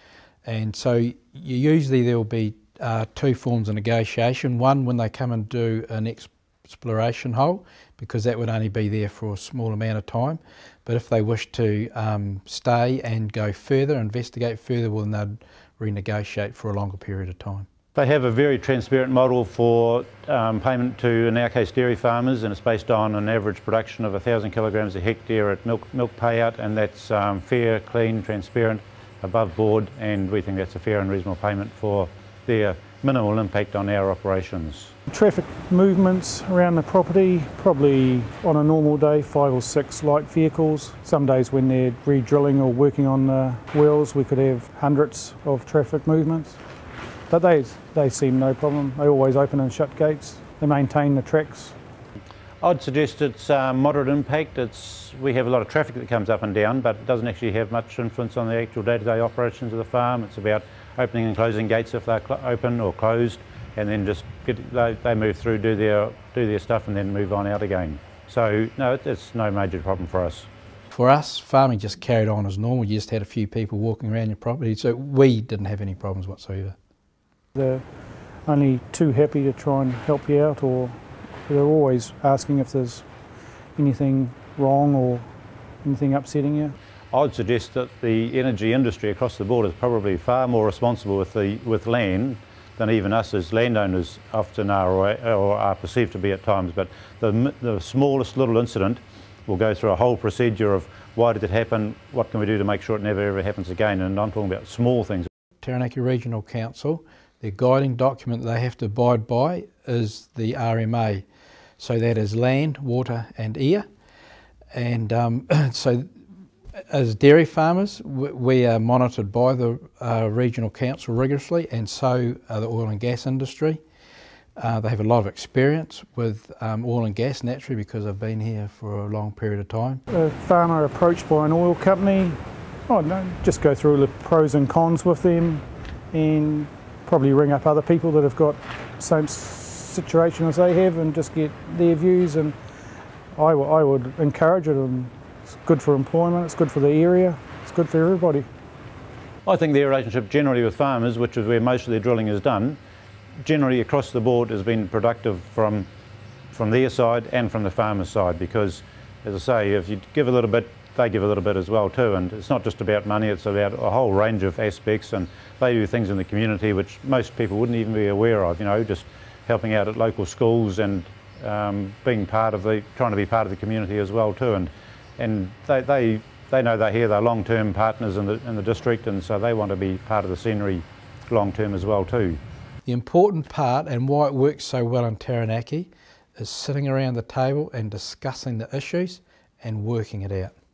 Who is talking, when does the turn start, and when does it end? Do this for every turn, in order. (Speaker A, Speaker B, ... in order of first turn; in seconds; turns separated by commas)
Speaker A: 0.4-17.7, Speaker B: 17.9-34.9, Speaker C: 35.1-46.6, Speaker C: 47.3-51.7, Speaker B: 52.6-70.5, Speaker A: 70.9-76.8, Speaker C: 77.5-77.8, Speaker C: 78.5-83.0, Speaker C: 83.8-85.3, Speaker C: 85.8-86.7, Speaker B: 87.1-105.3, Speaker A: 105.6-111.2, Speaker A: 111.8-113.8, Speaker A: 114.7-116.1, Speaker A: 116.9-123.8, Speaker A: 124.6-130.0, Speaker C: 130.1-142.6, Speaker C: 143.3-145.1, Speaker C: 145.6-148.5, Speaker B: 149.4-152.8, Speaker B: 153.4-155.9, Speaker B: 156.5-182.4, Speaker A: 182.8-190.5